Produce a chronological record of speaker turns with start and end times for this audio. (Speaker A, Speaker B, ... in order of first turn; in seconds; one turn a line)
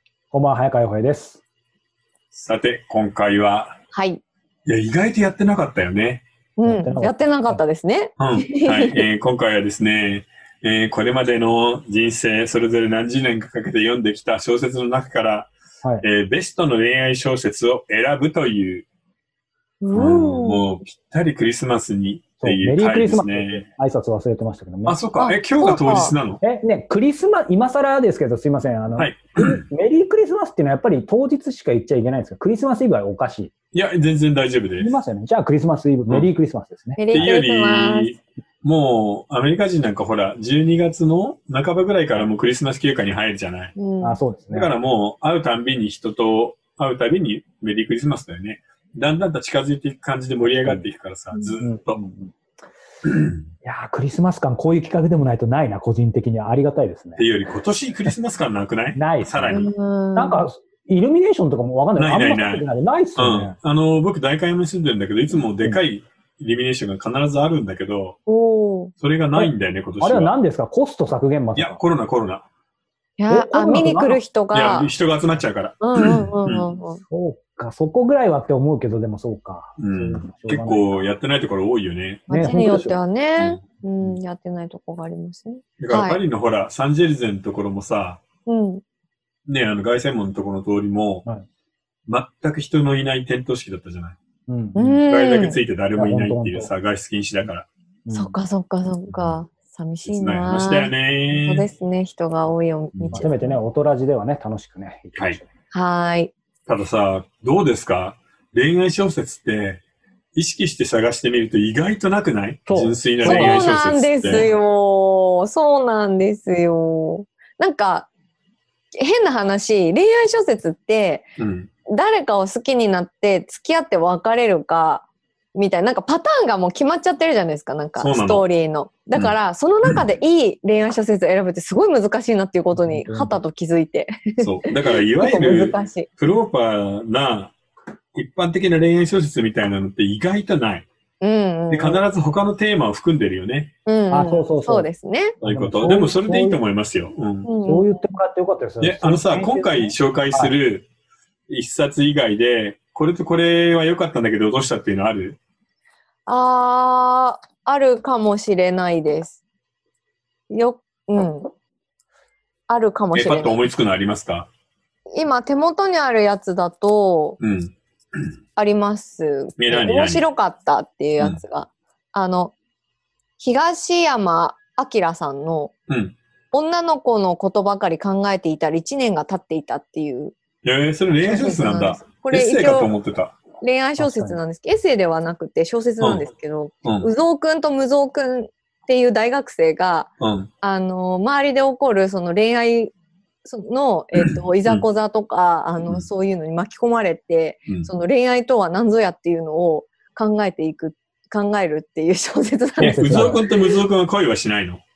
Speaker A: 0.3-1.4
Speaker B: 2.3-3.8
Speaker C: 3.9-4.2
Speaker B: 4.7-6.2
Speaker C: 6.6-9.0
Speaker A: 6.6-7.6
Speaker B: 8.2-15.5
Speaker B: 16.0-18.8
Speaker C: 19.8-20.6
Speaker A: 19.9-20.3
Speaker B: 19.9-23.6
Speaker A: 22.4-25.0
Speaker B: 24.9-26.4
Speaker C: 25.2-26.1
Speaker A: 26.4-33.5
Speaker B: 29.0-29.6
Speaker B: 33.7-34.9
Speaker A: 34.8-37.0
Speaker C: 37.0-38.1
Speaker B: 37.1-43.8
Speaker C: 43.8-44.2
Speaker A: 44.0-44.7
Speaker B: 44.5-52.0
Speaker A: 50.4-50.9
Speaker C: 51.3-51.6
Speaker A: 51.6-52.3
Speaker B: 53.0-53.5
Speaker A: 53.6-57.2
Speaker B: 57.2-59.7
Speaker A: 58.9-63.5
Speaker C: 59.5-60.4
Speaker B: 62.0-62.6
Speaker B: 63.1-68.2
Speaker C: 68.3-68.9
Speaker B: 69.0-70.3
Speaker A: 69.3-71.8
Speaker B: 71.5-72.5
Speaker C: 73.2-74.9
Speaker A: 73.3-74.2
Speaker B: 74.5-76.7
Speaker C: 75.8-77.0
Speaker A: 77.1-81.0
Speaker B: 79.8-82.3
Speaker C: 82.3-86.2
Speaker A: 82.3-83.0
Speaker B: 85.8-88.2
Speaker C: 88.5-88.8
Speaker B: 89.5-91.2
Speaker B: 92.1-94.2
Speaker A: 94.5-95.0
Speaker C: 94.7-95.6
Speaker B: 95.1-97.7
Speaker A: 95.9-96.7
Speaker A: 98.0-98.3
Speaker C: 98.1-103.6
Speaker A: 99.1-99.4
Speaker B: 100.0-101.7
Speaker B: 102.9-103.3
Speaker A: 103.1-105.5
Speaker C: 105.7-106.3
Speaker B: 106.7-109.8
Speaker B: 110.3-114.5
Speaker A: 112.7-113.6
Speaker C: 113.2-118.1
Speaker C: 119.0-121.3
Speaker B: 121.4-121.7
Speaker C: 121.9-136.1
Speaker B: 128.0-128.4
Speaker B: 129.1-130.0
Speaker A: 132.7-133.4
Speaker B: 134.4-137.5
Speaker B: 138.1-140.9
Speaker C: 141.2-142.0
Speaker B: 141.7-143.7
Speaker C: 143.8-145.3
Speaker A: 144.1-144.9
Speaker B: 145.4-147.5
Speaker A: 145.4-146.6
Speaker C: 147.4-148.0
Speaker A: 147.6-150.5
Speaker B: 148.8-150.8
Speaker B: 151.5-155.4
Speaker C: 156.2-159.4
Speaker C: 160.5-161.5
Speaker C: 162.7-163.6
Speaker B: 163.1-164.5
Speaker C: 165.1-167.4
Speaker B: 167.4-168.3
Speaker C: 168.6-172.5
Speaker B: 169.6-170.2
Speaker C: 173.4-175.7
Speaker B: 175.9-176.1
Speaker C: 176.5-180.3
Speaker B: 180.6-183.3
Speaker C: 181.2-182.9
Speaker C: 183.6-190.1
Speaker A: 184.0-184.4
Speaker B: 186.0-186.2
Speaker B: 186.8-187.1
Speaker B: 190.2-190.5
Speaker C: 190.6-192.9
Speaker C: 193.4-203.5
Speaker B: 194.2-194.8
Speaker B: 202.8-204.8
Speaker A: 202.8-203.4